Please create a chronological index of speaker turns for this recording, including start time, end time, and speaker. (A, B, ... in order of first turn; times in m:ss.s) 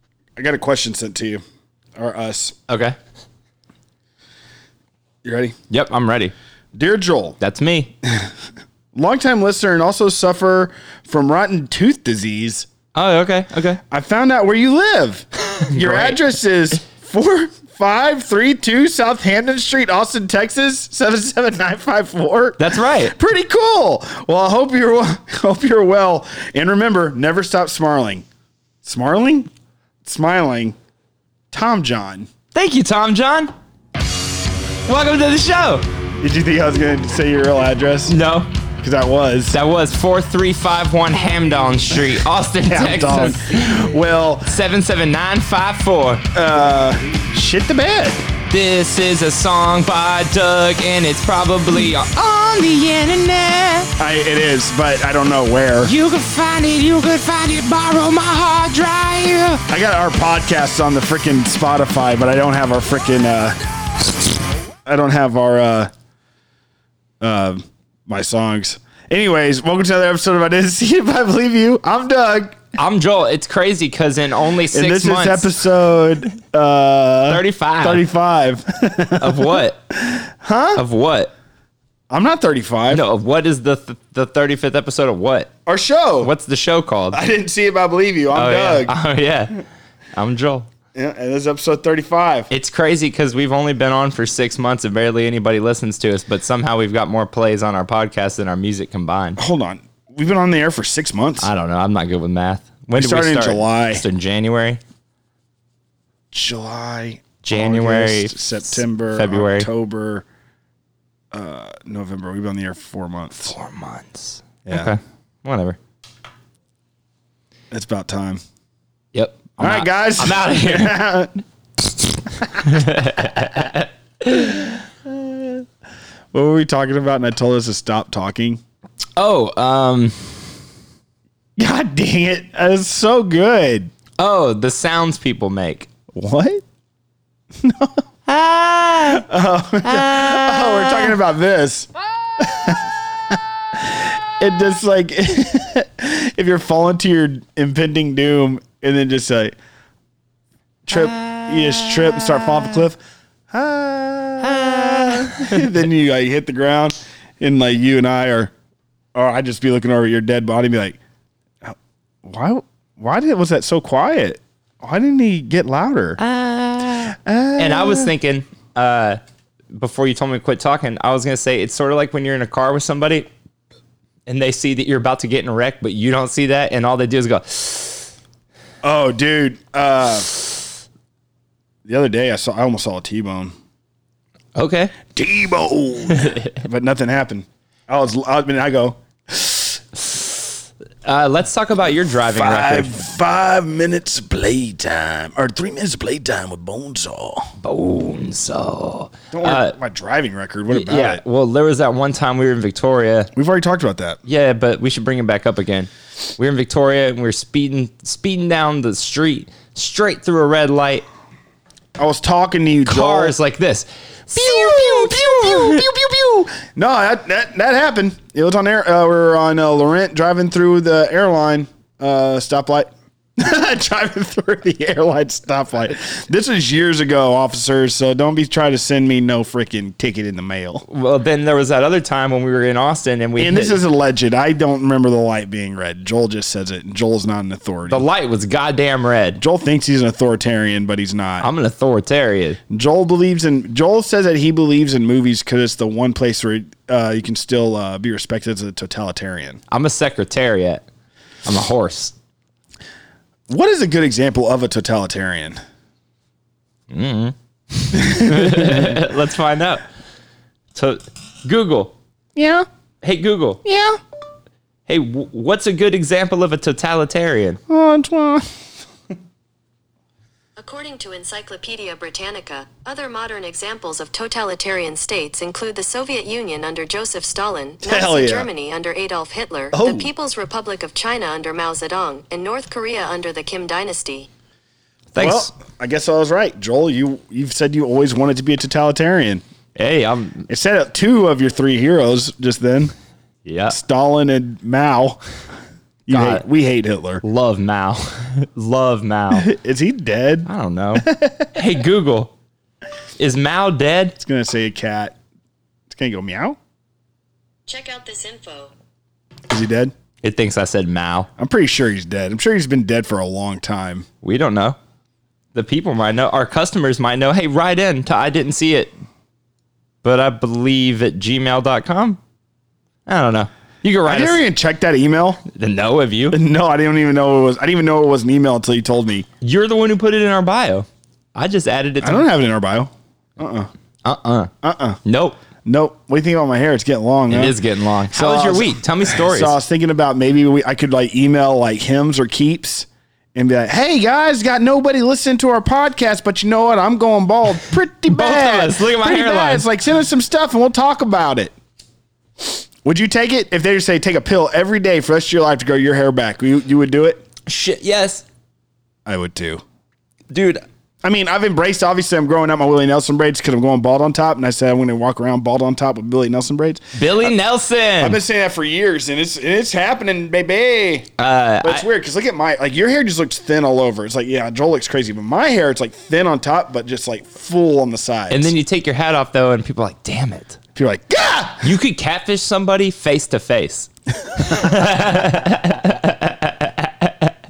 0:00.4-0:01.4 A
0:02.0-0:02.6 A
0:02.7-0:03.0 B
0:05.2-0:05.6 A
0:05.7-0:06.3 B
0:06.8-0:07.4 A
0:07.4-0:07.9 B
0:09.0-0:12.7 A
0:12.9-0:13.8 B
0:13.9-0:28.3 A
0:15.6-0:16.2 B
0:22.6-0:23.1 B
0:28.8-0:29.5 A
0:30.0-0:30.8 A
0:31.5-0:32.3 A
0:32.5-0:33.5 B
0:34.9-0:35.8 B
0:36.2-0:38.1 A
0:38.1-0:38.5 B
0:38.8-0:39.6 A
0:39.5-0:43.9 B
0:42.6-0:44.5 A
0:44.4-0:46.2 B
0:46.3-0:48.3 A
0:48.5-0:53.9 B
0:54.0-0:55.9 A
0:55.8-0:59.6 B
0:59.7-1:03.6 A
1:04.9-1:05.9 A
1:07.2-1:12.6 A
1:12.8-1:15.6 B
1:14.7-1:20.8 A
1:17.3-1:18.0 B
1:19.2-1:19.8 B
1:20.8-1:21.3 B
1:22.1-1:23.0 A
1:22.9-1:25.5 B
1:25.7-1:26.3 A
1:26.2-1:27.2 B
1:27.1-1:28.9 A
1:28.3-1:29.6 B
1:30.2-1:30.7 B
1:31.0-1:32.5 A
1:32.5-1:39.4 B
1:39.4-1:41.5 A
1:41.4-1:44.8 B
1:43.0-1:44.0 A
1:46.3-1:50.3 A
1:47.4-1:49.7 B
1:51.3-1:53.6 A
1:53.4-1:55.8 B
1:54.7-1:54.9 A
1:57.7-1:58.4 A
1:59.1-2:01.0 B
1:59.6-2:01.4 A
2:02.4-2:03.4 A
2:02.6-2:04.8 B
2:05.1-2:05.6 A
2:06.3-2:08.6 A
2:09.2-2:10.3 B
2:11.6-2:13.9 A
2:14.2-2:15.9 B
2:16.1-2:16.6 A
2:17.6-2:18.0 A
2:18.3-2:19.2 B
2:19.1-2:29.5 A
2:19.8-2:21.2 B
2:30.9-2:33.0 A
2:30.9-2:32.8 B
2:33.5-2:38.5 A
2:34.4-2:35.7 B
2:39.2-2:41.0 A
2:41.6-2:46.2 A
2:46.2-2:49.2 B
2:47.1-2:48.1 A
2:49.7-2:53.3 B
2:54.2-2:58.1 B
2:58.8-3:00.3 A
3:01.8-3:03.6 A
3:04.6-3:05.0 B
3:05.1-3:09.8 A
3:06.1-3:06.5 B
3:11.0-3:12.9 B
3:12.3-3:17.5 A
3:17.6-3:19.8 B
3:19.3-3:21.2 A
3:20.7-3:23.3 B
3:23.3-3:24.2 A
3:24.2-3:31.0 B
3:32.0-3:33.3 A
3:32.8-3:35.9 B
3:34.3-3:50.8 A
3:50.9-3:53.8 B
3:53.4-3:58.0 A
3:57.9-3:59.4 B
3:59.4-4:01.5 A
4:01.4-4:02.6 B
4:02.7-4:09.6 A
4:09.7-4:10.9 B
4:11.4-4:12.1 B
4:13.5-4:15.6 A
4:16.9-4:19.8 B
4:17.9-4:19.0 A
4:20.7-4:21.9 B
4:22.4-4:22.7 A
4:23.0-4:23.6 B
4:23.6-4:24.0 A
4:24.9-4:27.6 B
4:27.7-4:28.5 A
4:30.6-4:44.3 C
4:37.8-4:38.5 A
4:39.7-4:40.1 A
4:45.1-4:45.5 B
4:45.2-4:49.4 A
4:49.8-4:50.5 B
4:50.5-4:52.9 A
4:53.4-4:53.8 B
4:53.7-4:55.2 A
4:56.1-4:57.2 A
4:56.1-4:56.4 B
4:57.2-4:59.5 B
4:59.3-5:01.5 A
5:00.5-5:02.3 B
5:03.2-5:04.2 B
5:04.2-5:05.2 A
5:05.9-5:06.6 A
5:07.7-5:08.7 C
5:09.5-5:09.9 A
5:10.2-5:11.3 B
5:11.4-5:14.1 A
5:14.2-5:14.8 B
5:15.5-5:18.9 B
5:20.0-5:22.2 B
5:23.1-5:24.4 B
5:24.1-5:25.4 A
5:25.4-5:26.4 B
5:26.3-5:29.3 A
5:29.4-5:32.3 B
5:32.0-5:33.7 A
5:34.0-5:34.5 B
5:34.6-5:35.0 A
5:35.0-5:35.4 B
5:35.6-5:37.6 A
5:37.3-5:39.6 B
5:38.1-5:51.5 A
5:48.1-5:49.7 B
5:52.8-5:57.2 A
5:57.4-5:58.2 B
5:59.1-5:59.6 A
6:00.3-6:00.6 B
6:01.0-6:07.3 A
6:06.9-6:08.2 B
6:08.0-6:11.1 A
6:11.2-6:11.9 B
6:11.6-6:18.5 A
6:18.3-6:20.6 B
6:20.8-6:21.7 A
6:21.6-6:27.3 B